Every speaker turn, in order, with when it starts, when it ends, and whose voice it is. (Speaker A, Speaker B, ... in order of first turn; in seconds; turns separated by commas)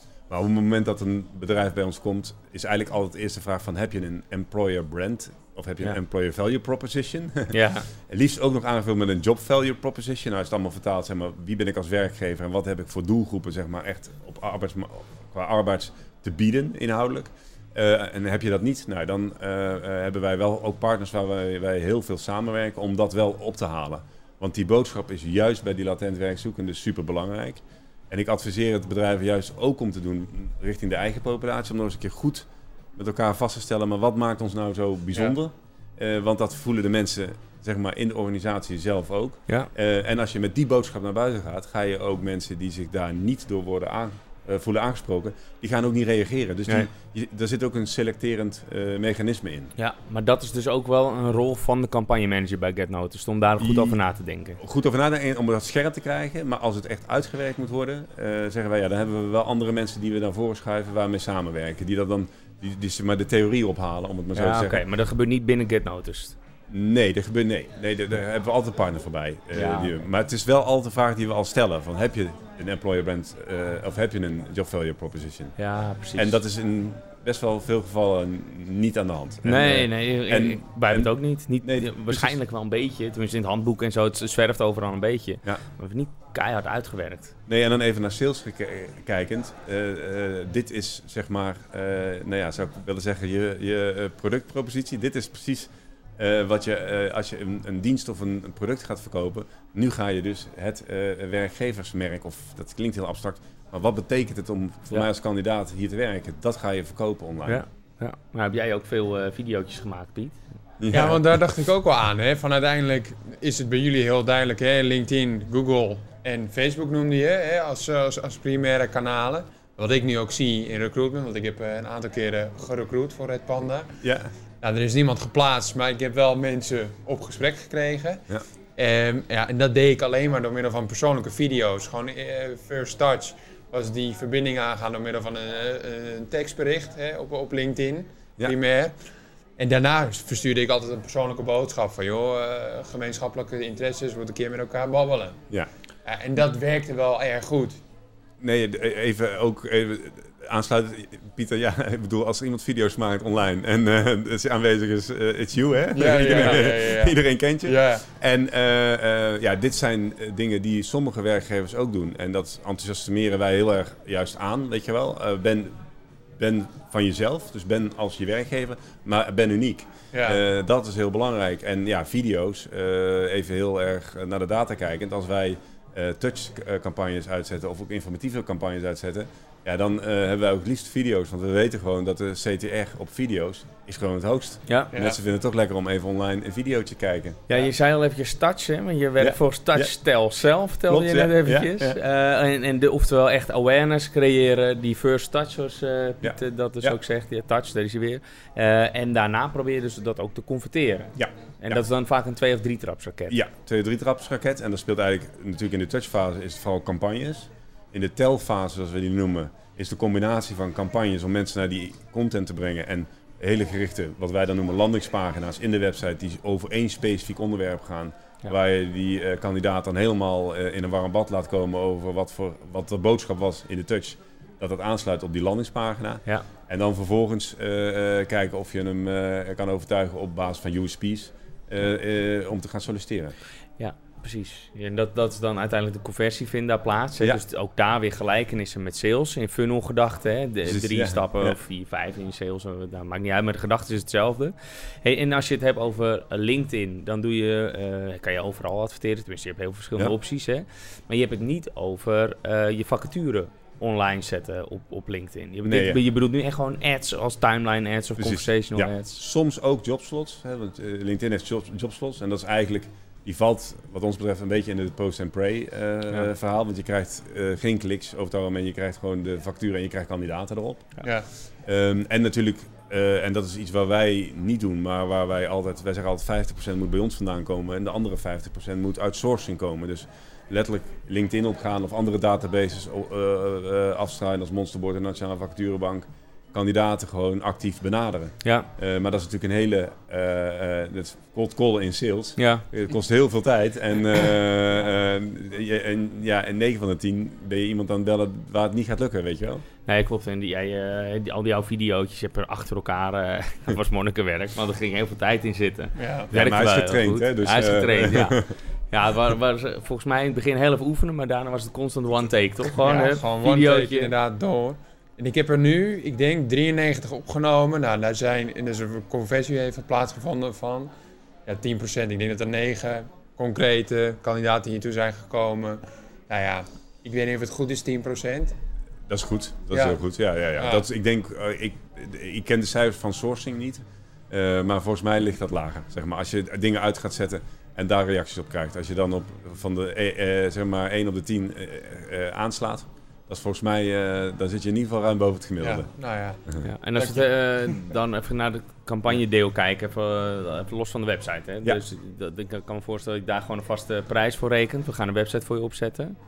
Speaker A: 0.3-49.7, Speaker B: 7.5-7.9, Speaker B: 49.8-54.6, Speaker A: 53.6-54.0, Speaker A: 54.6-64.8, Speaker B: 64.3-66.3, Speaker A: 66.7-75.6, Speaker B: 69.5-70.0, Speaker B: 75.6-76.3, Speaker A: 76.1-82.3, Speaker B: 79.4-87.3, Speaker A: 87.5-107.6, Speaker B: 107.5-110.4, Speaker A: 110.8-111.2, Speaker C: 110.9-123.9, Speaker A: 124.0-124.3, Speaker C: 124.6-128.2, Speaker C: 128.8-138.9, Speaker C: 139.6-145.4, Speaker C: 146.0-147.8, Speaker A: 148.4-165.7, Speaker C: 155.9-158.0, Speaker A: 166.4-187.4, Speaker C: 170.1-170.4, Speaker B: 187.5-203.3, Speaker A: 189.2-189.9, Speaker A: 190.9-192.0, Speaker A: 196.2-197.0, Speaker A: 201.1-201.8, Speaker A: 203.3-233.3, Speaker B: 233.8-259.2, Speaker A: 240.6-241.6, Speaker A: 255.6-256.0, Speaker A: 258.2-270.9, Speaker C: 271.0-271.3, Speaker A: 271.6-299.6, Speaker B: 288.4-288.7, Speaker B: 292.4-292.6, Speaker B: 299.9-314.1, Speaker C: 306.0-306.3, Speaker A: 306.3-308.5, Speaker C: 312.8-320.9, Speaker C: 321.4-328.5, Speaker A: 329.1-345.9, Speaker C: 329.7-330.0, Speaker C: 330.6-330.8, Speaker C: 345.6-346.4, Speaker B: 346.6-356.2, Speaker C: 346.9-347.3